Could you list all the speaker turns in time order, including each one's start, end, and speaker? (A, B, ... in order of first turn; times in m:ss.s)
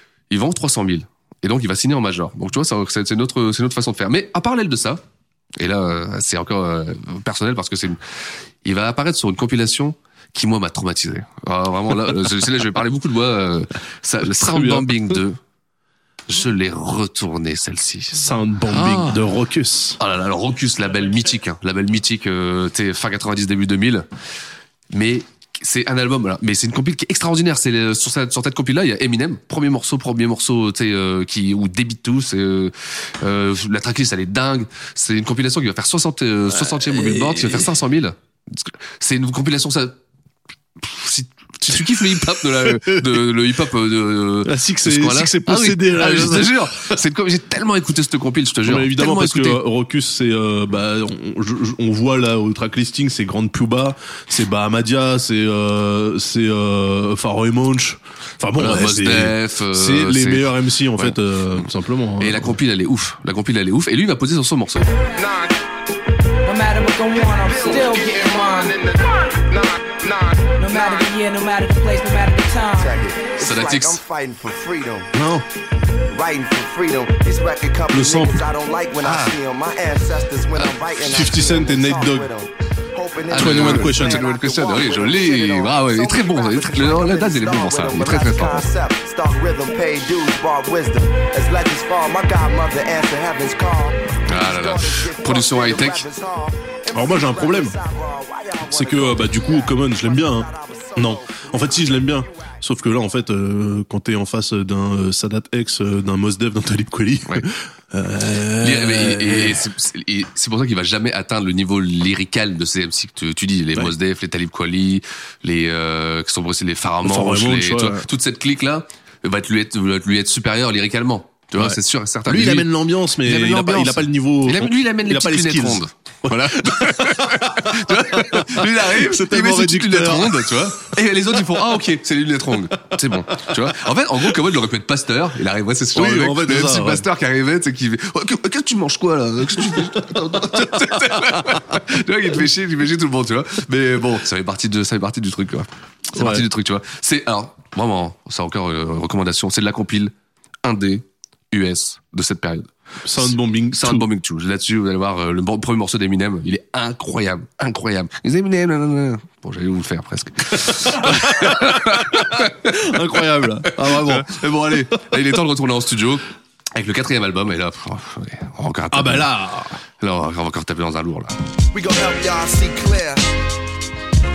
0:00.3-0:05.0 A
0:05.6-0:08.0 A
0:08.6-0:15.4 A
0:14.2-0:15.2 B
0:16.3-0:19.2 A
0:18.1-0:20.0 B
0:20.0-0:24.0 A
0:24.9-0:39.9 A
0:36.5-0:37.7 B
0:40.8-0:49.6 A
0:41.7-0:43.2 B
0:44.4-0:47.0 B
0:48.6-1:02.5 B
0:58.6-1:01.2 A
1:02.2-1:04.9 A
1:05.1-1:05.6 C
1:06.4-1:08.8 D
1:07.2-1:11.1 C
1:10.6-1:12.9 D
1:12.8-1:15.1 C
1:13.4-1:14.0 A
1:15.1-1:15.4 B
1:16.1-1:42.2 C
1:17.9-1:18.4 B
1:19.0-1:19.3 A
1:21.0-1:22.3 B
1:23.3-1:28.7 A
1:23.3-1:24.2 B
1:34.3-1:36.0 A
1:36.9-1:37.8 B
1:38.6-1:49.6 B
1:48.6-2:02.7 A
1:57.0-1:58.1 B
2:01.6-2:10.5 B
2:03.2-2:42.9 A
2:15.9-2:17.1 B
2:19.9-2:21.8 B
2:26.1-2:26.4 B
2:33.0-2:34.1 B
2:40.8-2:45.0 B
2:43.6-2:49.3 A
2:48.9-2:49.8 B
2:50.0-2:51.3 A
2:51.7-2:53.2 C